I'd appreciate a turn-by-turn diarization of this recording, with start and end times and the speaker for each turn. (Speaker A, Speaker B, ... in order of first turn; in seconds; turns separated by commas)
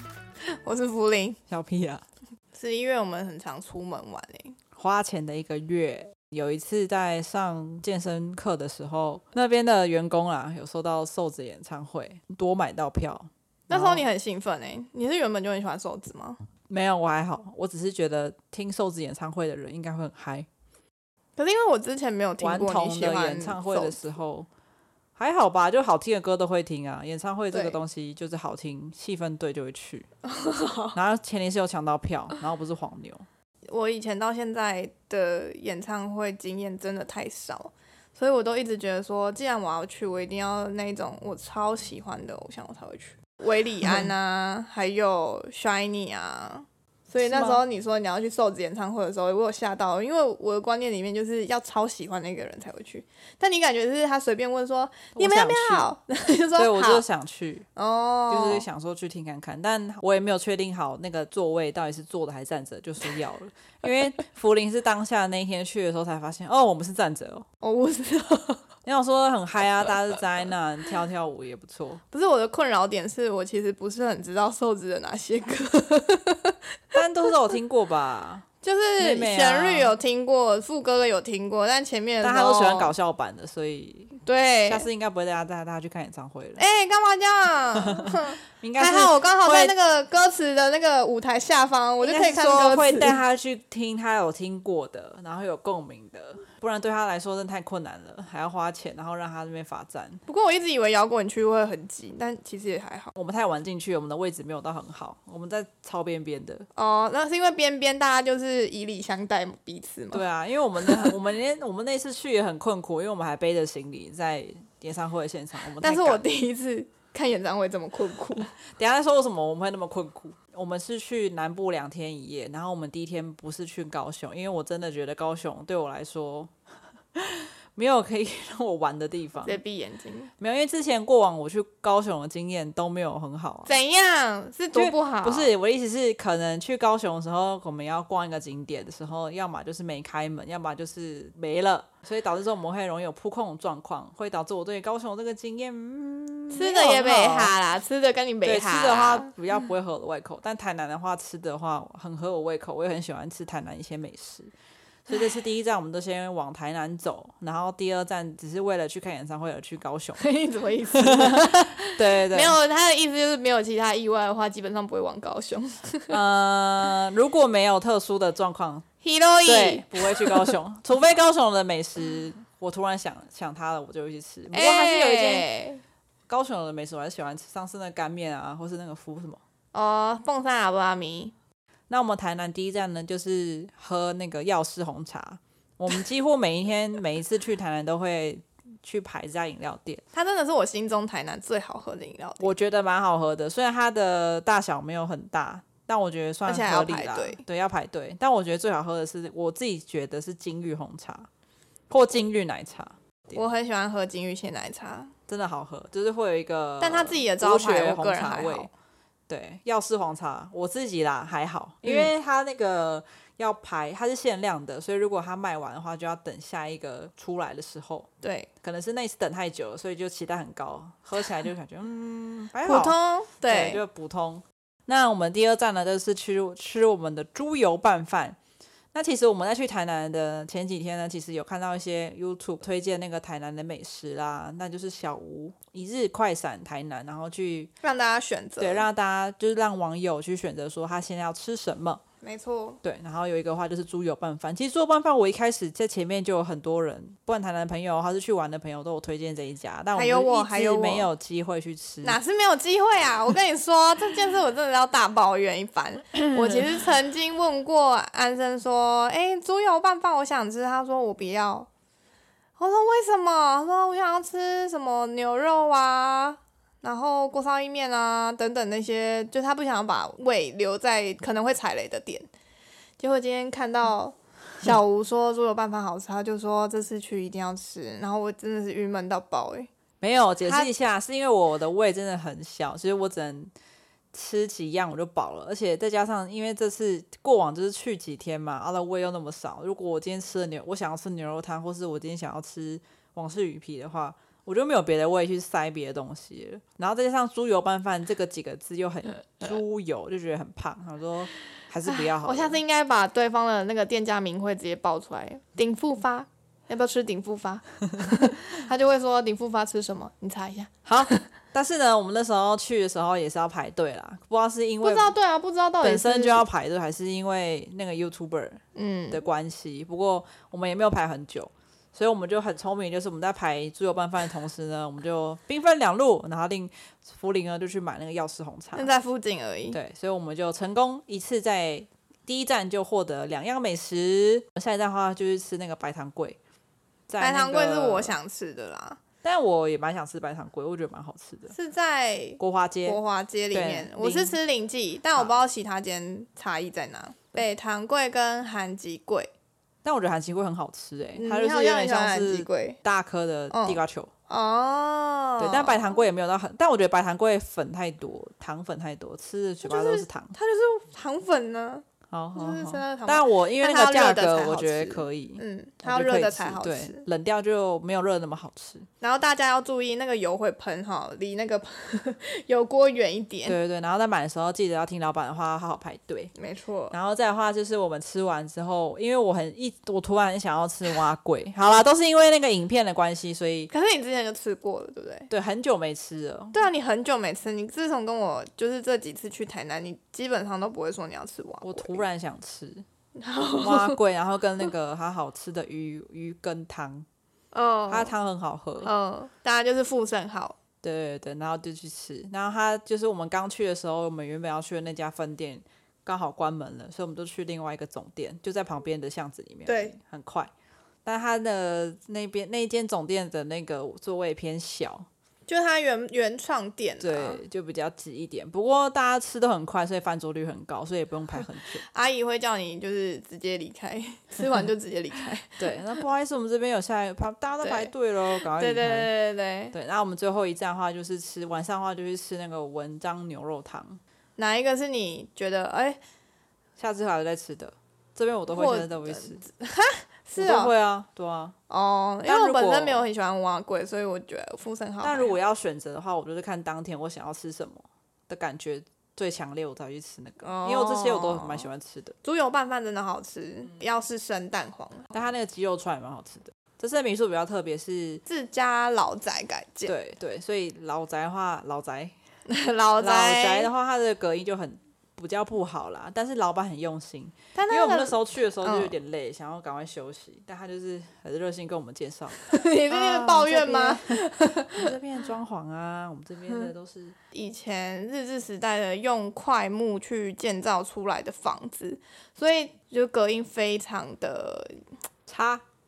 Speaker A: 0.6-1.4, Speaker B: 1.5-2.0, Speaker A: 2.5-4.5, Speaker B: 4.8-14.1, Speaker A: 13.7-16.4, Speaker B: 16.7-20.5, Speaker A: 21.4-24.0, Speaker B: 22.4-24.5, Speaker B: 25.1-30.1, Speaker A: 27.5-27.8, Speaker A: 30.2-31.0, Speaker B: 30.9-33.2, Speaker A: 33.7-57.0, Speaker B: 47.2-47.6, Speaker B: 55.1-55.9, Speaker B: 56.5-57.7, Speaker A: 57.8-58.6, Speaker B: 58.3-67.4, Speaker A: 67.6-68.6, Speaker B: 68.8-72.0, Speaker A: 72.1-77.0, Speaker B: 76.9-78.4, Speaker A: 78.6-82.9, Speaker B: 79.0-80.0, Speaker B: 82.2-84.1, Speaker A: 84.2-84.9, Speaker B: 84.7-86.6, Speaker A: 86.6-93.2, Speaker B: 87.8-89.7, Speaker B: 92.0-100.2, Speaker A: 100.2-103.1, Speaker B: 103.2-106.7, Speaker A: 106.7-110.2, Speaker B: 110.1-116.2, Speaker A: 110.8-111.1, Speaker A: 115.8-118.5, Speaker B: 118.6-126.5, Speaker B: 127.1-129.6, Speaker A: 129.4-130.3, Speaker B: 130.4-133.7, Speaker A: 133.7-135.5, Speaker B: 134.7-147.5, Speaker A: 146.5-149.3, Speaker B: 148.4-154.5, Speaker B: 155.1-160.2, Speaker A: 160.2-166.2, Speaker B: 161.0-162.6, Speaker B: 166.1-168.8, Speaker A: 169.0-170.5, Speaker B: 169.4-175.4, Speaker A: 174.5-175.8, Speaker B: 176.3-179.4, Speaker A: 179.7-181.3, Speaker B: 181.9-190.0, Speaker A: 190.1-192.5, Speaker B: 192.4-201.3, Speaker A: 196.4-197.4, Speaker B: 201.9-203.4, Speaker A: 203.3-205.1, Speaker B: 205.3-208.7, Speaker A: 206.8-208.7, Speaker B: 209.3-218.1, Speaker A: 211.8-212.1, Speaker A: 218.2-218.5, Speaker B: 218.6-228.4, Speaker A: 222.6-223.8, Speaker B: 228.9-237.7, Speaker A: 237.8-238.9, Speaker B: 238.6-242.0, Speaker A: 242.2-242.8, Speaker B: 242.8-252.2, Speaker A: 249.9-251.1, Speaker A: 252.0-261.7, Speaker A: 262.6-272.3, Speaker A: 273.0-279.7, Speaker B: 280.0-283.5, Speaker A: 280.4-280.7, Speaker B: 284.1-302.6, Speaker A: 301.8-311.2, Speaker B: 310.8-315.1, Speaker A: 314.8-316.4, Speaker B: 315.8-328.9, Speaker A: 318.7-319.2, Speaker A: 328.7-329.8, Speaker B: 329.7-336.4, Speaker B: 337.1-338.1, Speaker A: 337.2-339.0, Speaker B: 339.2-341.5, Speaker A: 341.5-349.3, Speaker B: 342.4-343.0, Speaker B: 343.5-344.4, Speaker B: 349.8-354.1, Speaker A: 351.1-352.8, Speaker A: 353.5-356.0, Speaker B: 355.4-360.4, Speaker A: 359.6-361.8, Speaker B: 362.1-368.9, Speaker A: 362.4-367.0, Speaker A: 369.0-373.6, Speaker B: 373.4-376.3, Speaker A: 376.3-376.9, Speaker B: 376.9-383.7, Speaker A: 383.7-385.3, Speaker B: 385.3-386.7, Speaker A: 386.5-392.0, Speaker B: 391.6-392.8, Speaker A: 393.2-394.0, Speaker B: 393.6-397.1, Speaker A: 397.5-398.1, Speaker B: 397.9-398.9, Speaker A: 398.8-400.6, Speaker B: 400.8-410.5, Speaker A: 409.6-409.9, Speaker B: 411.1-415.1, Speaker A: 415.5-417.4, Speaker B: 417.0-421.8, Speaker A: 421.8-425.8, Speaker B: 425.6-429.1, Speaker A: 427.6-429.7, Speaker B: 429.7-434.0, Speaker A: 434.4-436.0, Speaker B: 436.8-439.4, Speaker A: 438.5-440.7, Speaker B: 440.4-441.5, Speaker A: 441.7-445.4, Speaker B: 442.2-443.1, Speaker B: 445.0-452.1, Speaker A: 450.4-451.7, Speaker A: 452.2-455.1, Speaker B: 455.1-458.2, Speaker A: 458.2-459.9, Speaker B: 459.9-462.1, Speaker A: 462.5-463.7, Speaker B: 463.0-477.1, Speaker A: 467.5-468.9, Speaker A: 472.4-474.9, Speaker A: 477.3-484.8, Speaker B: 485.3-485.6